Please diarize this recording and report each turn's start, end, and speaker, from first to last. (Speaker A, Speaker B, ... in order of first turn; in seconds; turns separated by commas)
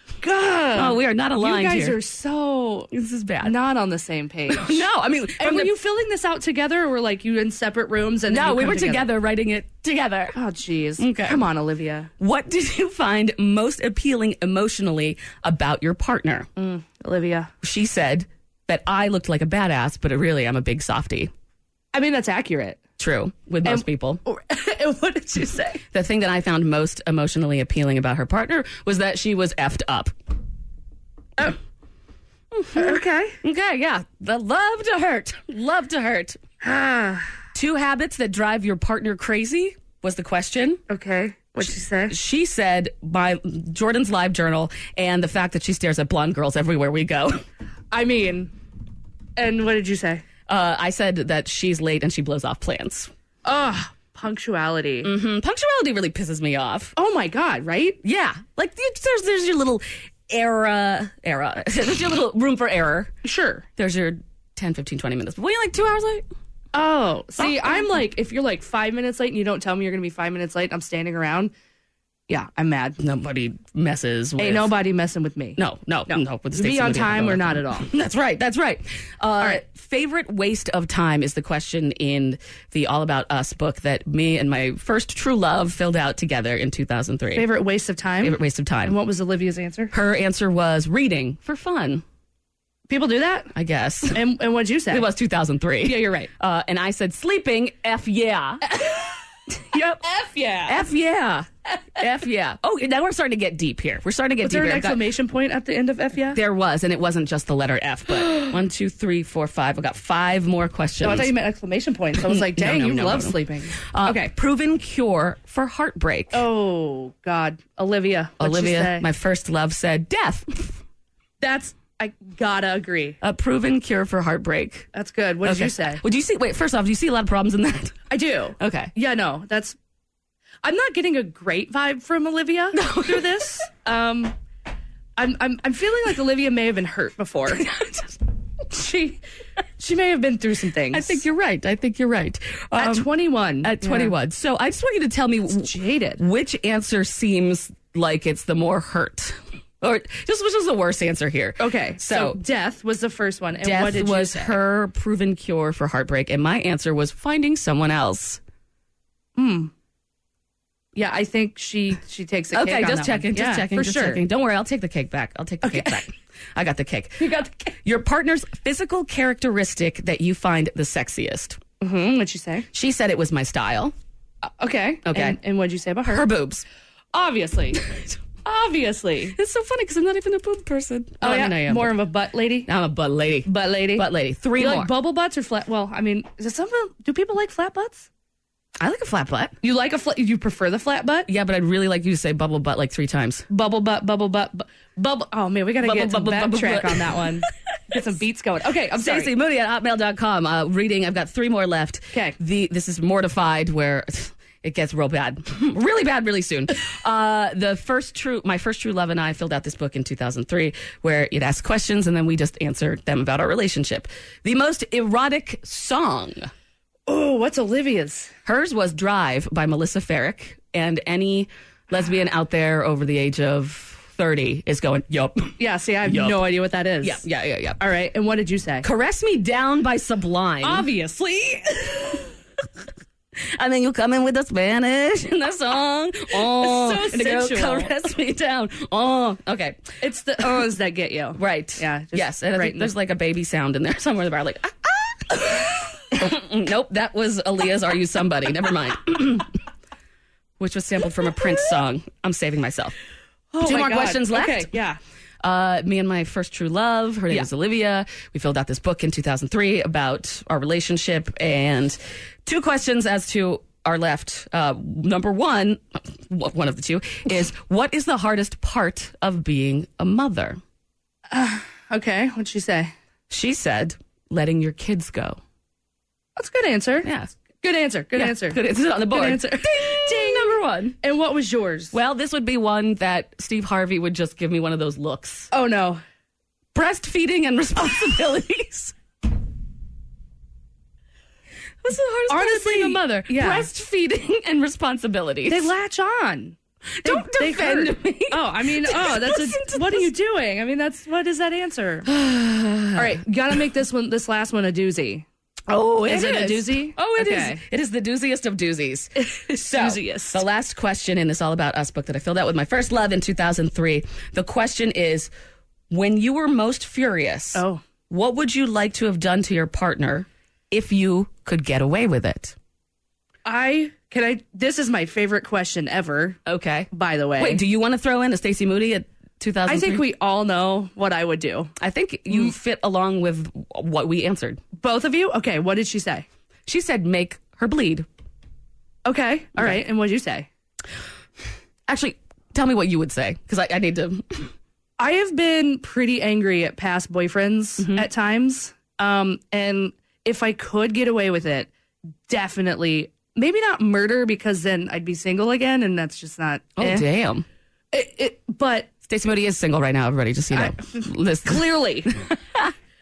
Speaker A: 0.2-2.9, Speaker B: 0.8-2.0, Speaker B: 2.9-3.6, Speaker A: 3.4-9.1, Speaker B: 4.5-5.7, Speaker B: 8.3-10.4, Speaker A: 10.3-12.1, Speaker B: 11.0-11.5, Speaker B: 12.2-16.5, Speaker A: 16.6-17.5, Speaker B: 17.6-21.3, Speaker A: 21.9-22.8, Speaker B: 23.0-24.2, Speaker A: 23.6-25.8, Speaker B: 25.9-30.1, Speaker B: 32.5-36.4, Speaker A: 32.7-33.4, Speaker A: 36.6-37.3, Speaker B: 37.5-40.8, Speaker A: 40.9-42.1, Speaker B: 41.6-47.5, Speaker A: 47.9-48.5, Speaker A: 49.4-50.2, Speaker B: 50.5-53.1, Speaker A: 53.5-55.1, Speaker B: 55.0-57.0, Speaker A: 57.0-58.0, Speaker B: 58.0-63.1, Speaker A: 63.2-63.6, Speaker B: 63.8-66.3, Speaker A: 66.7-71.5, Speaker B: 67.4-67.9, Speaker A: 72.3-73.0, Speaker B: 73.0-74.7, Speaker A: 74.4-77.9, Speaker B: 75.6-87.5, Speaker A: 87.3-89.9, Speaker B: 88.2-89.0, Speaker B: 89.9-92.0, Speaker A: 92.9-93.5, Speaker B: 93.5-94.3, Speaker A: 94.1-95.1, Speaker B: 94.9-98.8, Speaker A: 95.8-96.3, Speaker A: 98.6-99.2, Speaker B: 99.5-100.0, Speaker A: 100.0-100.8, Speaker B: 100.7-105.0, Speaker A: 104.4-106.4, Speaker B: 106.3-111.3, Speaker A: 111.0-114.3, Speaker B: 112.1-116.5, Speaker A: 116.3-119.1, Speaker B: 118.4-120.8, Speaker A: 121.4-123.2, Speaker B: 123.2-124.9, Speaker A: 124.9-126.0, Speaker B: 125.4-128.9, Speaker A: 128.1-129.8, Speaker A: 130.6-134.3, Speaker B: 132.7-133.6, Speaker A: 135.2-137.7, Speaker B: 137.5-138.2, Speaker A: 138.7-139.2, Speaker A: 139.8-141.2, Speaker B: 140.9-152.4, Speaker A: 142.8-144.1, Speaker A: 145.5-146.2, Speaker A: 151.6-154.6, Speaker B: 153.6-158.4, Speaker A: 159.4-159.7, Speaker A: 161.0-164.2, Speaker B: 162.5-167.3, Speaker A: 165.6-166.1, Speaker A: 167.2-167.8, Speaker B: 167.8-171.6, Speaker A: 171.8-172.7, Speaker B: 172.7-173.9, Speaker A: 174.5-176.3, Speaker B: 175.1-175.4, Speaker B: 176.1-176.6, Speaker A: 177.1-177.8, Speaker B: 177.7-178.2, Speaker A: 178.4-179.4, Speaker B: 179.3-182.0, Speaker A: 181.2-182.7, Speaker B: 182.7-184.9, Speaker A: 183.4-188.1, Speaker B: 188.8-189.6, Speaker A: 189.6-191.3, Speaker B: 191.3-193.4, Speaker A: 193.5-199.3, Speaker B: 195.8-197.3, Speaker B: 198.9-216.5, Speaker A: 217.1-218.3, Speaker B: 218.5-226.4, Speaker A: 225.6-227.2, Speaker B: 227.0-227.8, Speaker A: 227.8-228.9, Speaker B: 228.8-230.9, Speaker A: 230.6-232.3, Speaker B: 233.4-239.9, Speaker A: 236.3-238.0, Speaker A: 240.0-242.9, Speaker B: 241.4-249.5, Speaker B: 250.6-253.0, Speaker A: 253.5-255.0, Speaker B: 253.6-254.7, Speaker B: 255.4-270.6, Speaker A: 271.3-272.9, Speaker B: 273.3-275.4, Speaker A: 276.4-277.1, Speaker B: 277.0-277.3, Speaker A: 277.6-281.9, Speaker B: 278.1-281.0, Speaker B: 281.9-285.5, Speaker A: 285.5-286.0, Speaker B: 286.7-288.9, Speaker B: 291.8-295.7, Speaker A: 292.3-293.7, Speaker A: 295.5-302.1, Speaker B: 297.0-300.1, Speaker B: 302.1-303.2, Speaker A: 302.9-305.3, Speaker B: 305.7-315.3, Speaker A: 306.1-307.6, Speaker A: 309.2-310.4, Speaker B: 315.9-322.6, Speaker A: 317.6-317.8, Speaker A: 323.4-326.4, Speaker B: 326.5-330.1, Speaker A: 326.9-327.6, Speaker A: 329.6-331.7, Speaker B: 331.8-334.6, Speaker A: 334.8-336.3, Speaker B: 336.7-338.1, Speaker A: 339.1-340.5, Speaker B: 341.9-344.5, Speaker A: 345.0-351.7, Speaker B: 347.8-348.1, Speaker A: 352.3-357.1, Speaker B: 356.8-357.5, Speaker A: 357.9-358.9, Speaker B: 359.1-362.7, Speaker A: 360.5-362.1